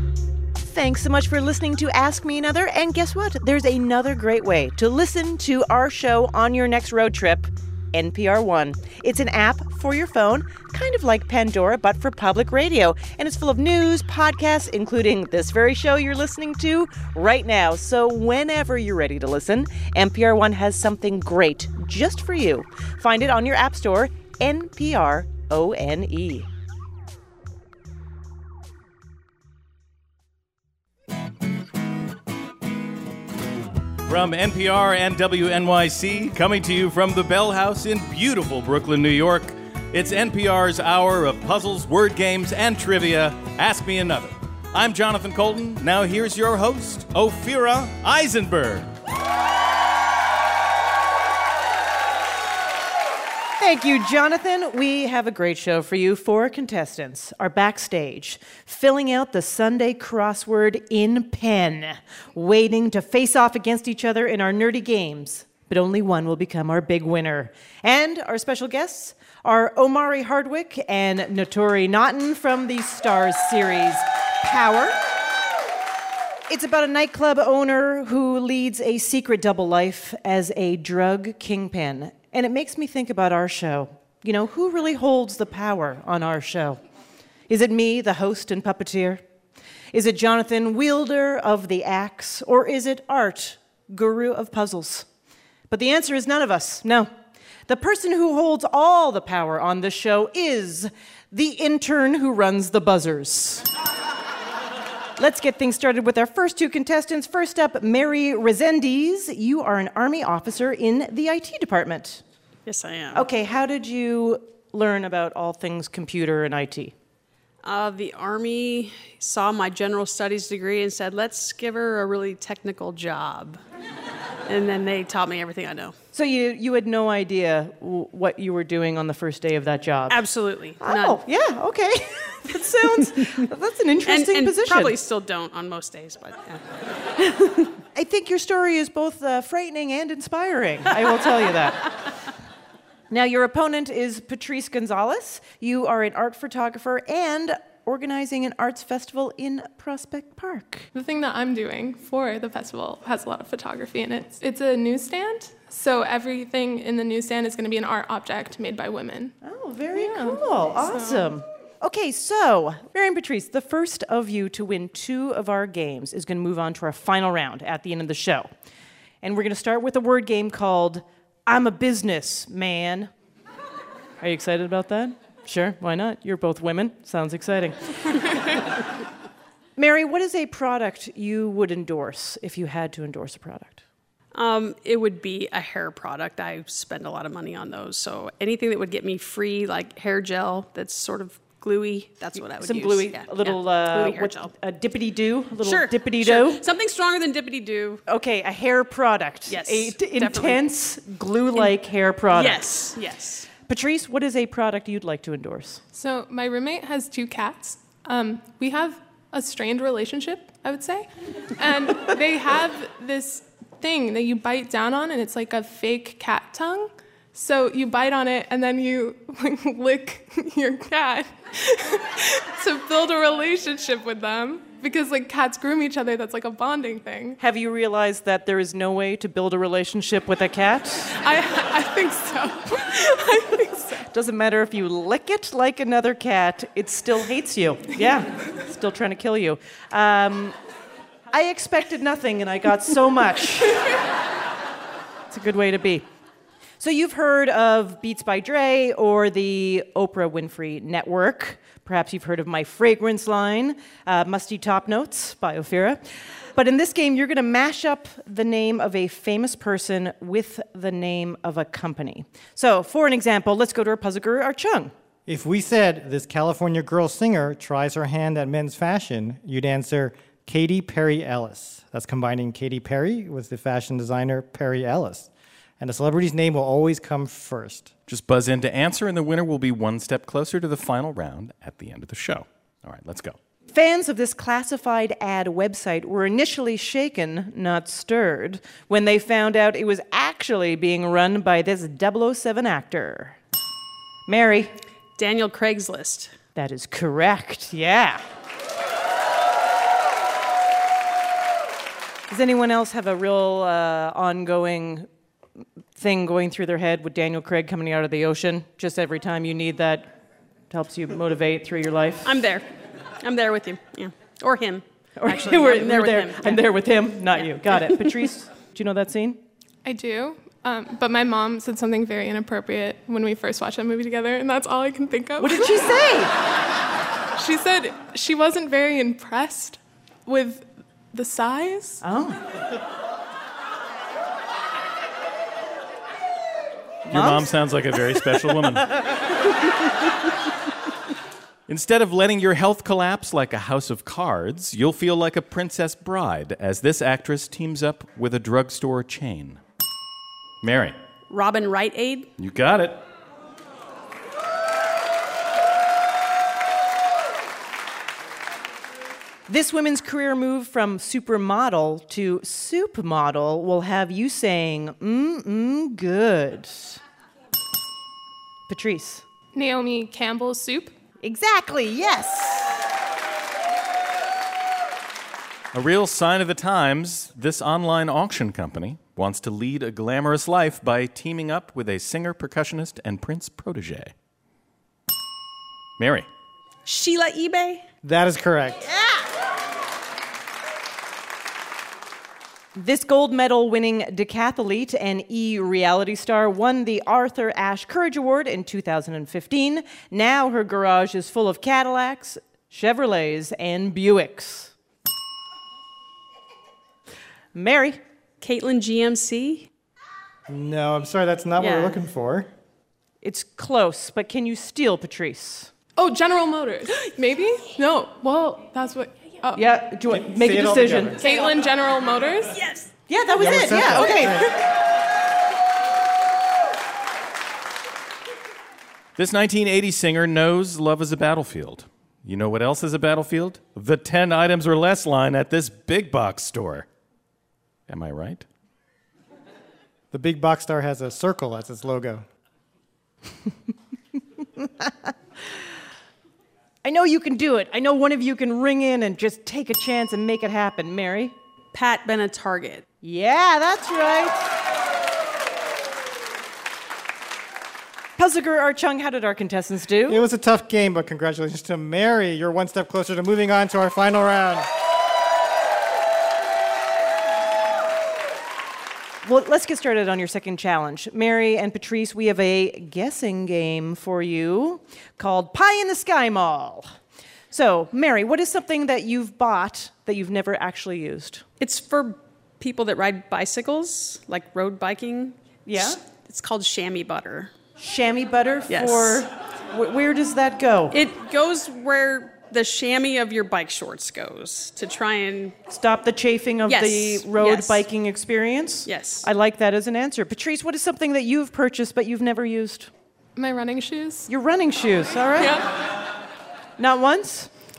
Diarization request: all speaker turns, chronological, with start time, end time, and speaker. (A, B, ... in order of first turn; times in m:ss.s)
0:00.6-0:26.5 A
0:34.1-0:48.9 B
0:53.6-1:15.0 A
1:16.5-1:26.8 A
1:27.5-1:29.2 A
1:29.9-1:35.1 A
1:35.7-1:37.1 A
1:37.7-1:43.7 A
1:45.2-1:52.2 A
1:52.7-1:53.3 C
1:53.1-1:56.9 A
1:57.6-2:03.6 C
2:04.5-2:06.0 C
2:06.1-2:10.2 A
2:10.1-2:11.2 C
2:10.8-2:14.9 A
2:14.1-2:16.6 C
2:17.3-2:17.6 C
2:17.9-2:21.9 A
2:23.1-2:30.9 A
2:30.9-2:39.4 D
2:39.4-2:48.5 A
2:40.0-2:41.3 D
2:49.2-2:53.1 A
2:54.2-2:58.3 A
2:59.8-3:03.8 A
3:04.3-3:14.5 C
3:12.6-3:16.6 A
3:15.6-3:18.0 C
3:18.1-3:22.7 A
3:19.5-3:20.7 C
3:22.3-3:23.5 C
3:23.7-3:25.8 A
3:26.0-3:47.4 D
3:47.4-3:51.1 A
3:51.2-3:54.1 D
3:54.1-4:00.6 A
4:01.3-4:03.9 A
4:05.3-4:06.0 A
4:06.8-4:16.0 A
4:16.6-4:24.9 A
4:25.3-4:35.3 E
4:35.8-4:37.9 E
4:38.1-4:43.4 B
4:43.7-4:53.4 A
4:54.3-4:54.7 A
4:55.2-4:56.4 C
4:56.6-4:58.2 A
5:02.3-5:05.1 A
5:06.0-5:10.1 A
5:10.7-5:12.3 A
5:12.2-5:16.6 C
5:15.2-5:19.4 A
5:17.4-5:18.1 C
5:19.8-5:26.0 D
5:25.4-5:26.3 A
5:27.4-5:32.0 D
5:32.0-5:32.4 A
5:37.1-5:37.5 A
5:37.1-5:39.0 B
5:41.7-5:49.6 B
5:50.6-5:51.0 B
5:51.3-5:52.3 C
5:52.4-5:53.0 B
5:59.5-6:07.0 A
6:08.7-6:09.2 A
6:09.5-6:10.9 D
6:11.2-6:12.7 A
6:15.7-6:24.1 B
6:26.0-6:26.3 B
6:26.8-6:27.8 C
6:28.0-6:28.9 E
6:32.8-6:44.7 A
6:47.5-6:48.0 A
6:48.4-6:49.7 C
6:50.5-6:52.5 E
6:51.6-6:52.0 C
6:53.2-6:55.7 A
6:56.0-6:59.7 D
6:59.6-7:01.4 A
7:00.1-7:01.2 E
7:01.2-7:02.6 D
7:02.6-7:02.9 C
7:03.1-7:04.5 A
7:03.4-7:04.5 E
7:09.2-7:16.9 B
7:17.9-7:18.4 B
7:20.1-7:22.2 E
7:26.8-7:31.4 A
7:31.7-7:32.8 C
7:33.0-7:34.5 A
7:38.2-7:40.2 A
7:40.1-7:44.7 E
7:49.2-7:57.0 A
7:57.5-8:01.4 A
8:01.6-8:07.5 C
8:05.7-8:06.0 A
8:07.8-8:11.0 A
8:08.7-8:09.3 C
8:10.9-8:15.6 C
8:15.7-8:22.9 A
8:16.7-8:17.8 C
8:18.8-8:19.3 C
8:23.4-8:24.3 D
8:24.3-8:25.6 A
8:25.4-8:25.7 D
8:26.8-8:27.5 A